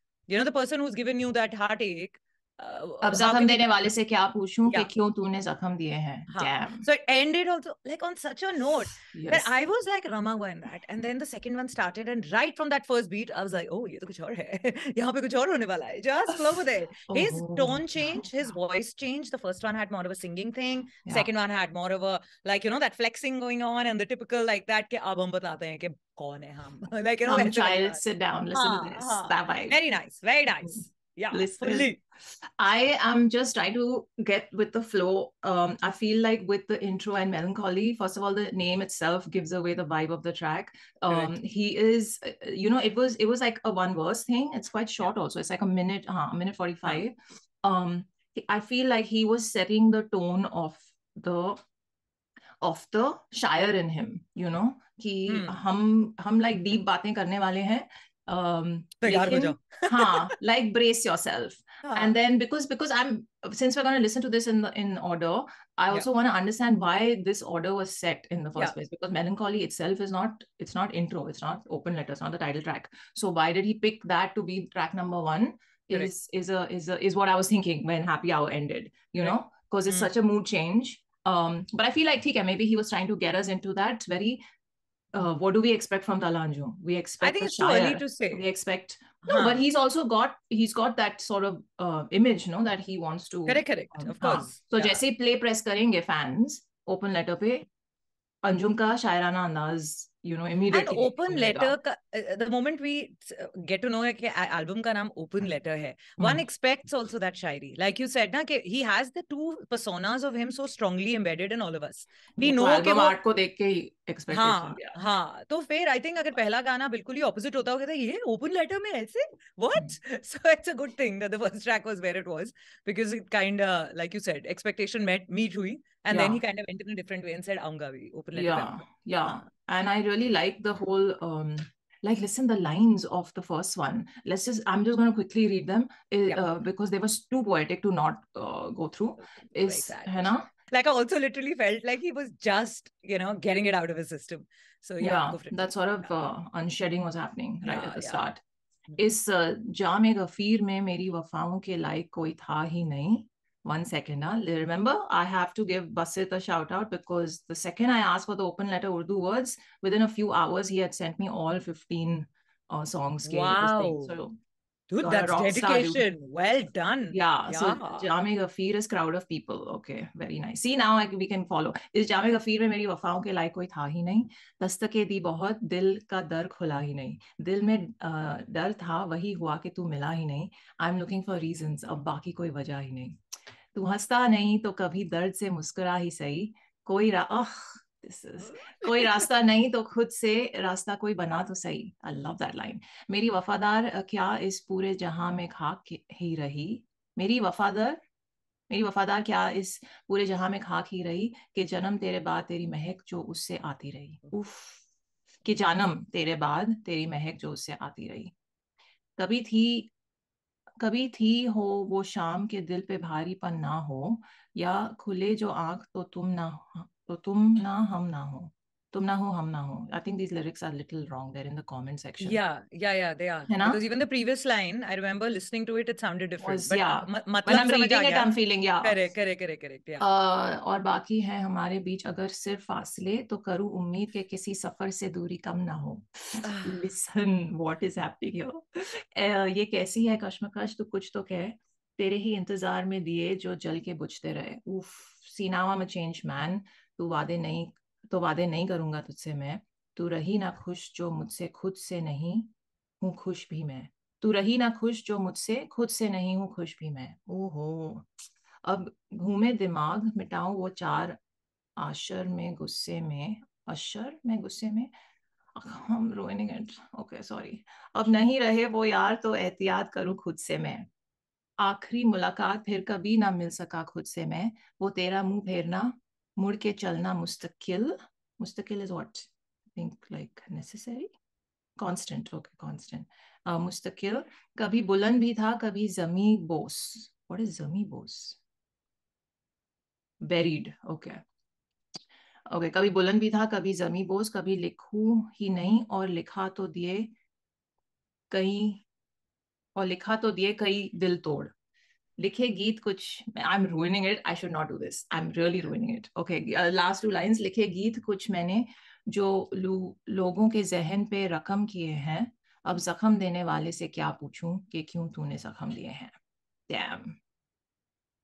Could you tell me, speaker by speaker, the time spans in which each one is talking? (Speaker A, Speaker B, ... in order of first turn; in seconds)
Speaker A: 0.3-3.6, 6.3-28.0, 28.5-32.0, 55.3-55.6, 59.0-60.3, 61.9-62.1, 87.2-88.4, 89.2-89.6, 93.5-95.0, 100.7-113.2, 114.3-129.4, 139.5-145.7, 147.6-148.2, 163.2-164.2, 164.9-168.1, 188.8-189.2, 222.2-228.3, 228.8-230.0, 236.4-236.8
Speaker B: 3.0-6.8, 9.0-9.5, 17.1-18.3, 27.2-29.8, 31.3-51.6, 52.6-84.4, 85.1-97.7, 98.4-101.7, 112.4-114.9, 126.1-126.4, 128.3-140.5, 145.0-148.4, 149.0-164.4, 165.0-166.0, 167.1-183.1, 183.7-198.0, 198.7-204.8, 205.4-208.3, 209.2-209.9, 210.8-222.4, 223.5-223.8, 226.4-228.9, 230.0-258.1, 258.6-261.2, 261.8-264.9, 265.5-270.9, 271.6-281.1, 281.8-288.4, 290.2-291.2, 292.5-297.1, 298.3-298.8, 299.8-301.5, 302.2-316.1, 316.7-317.2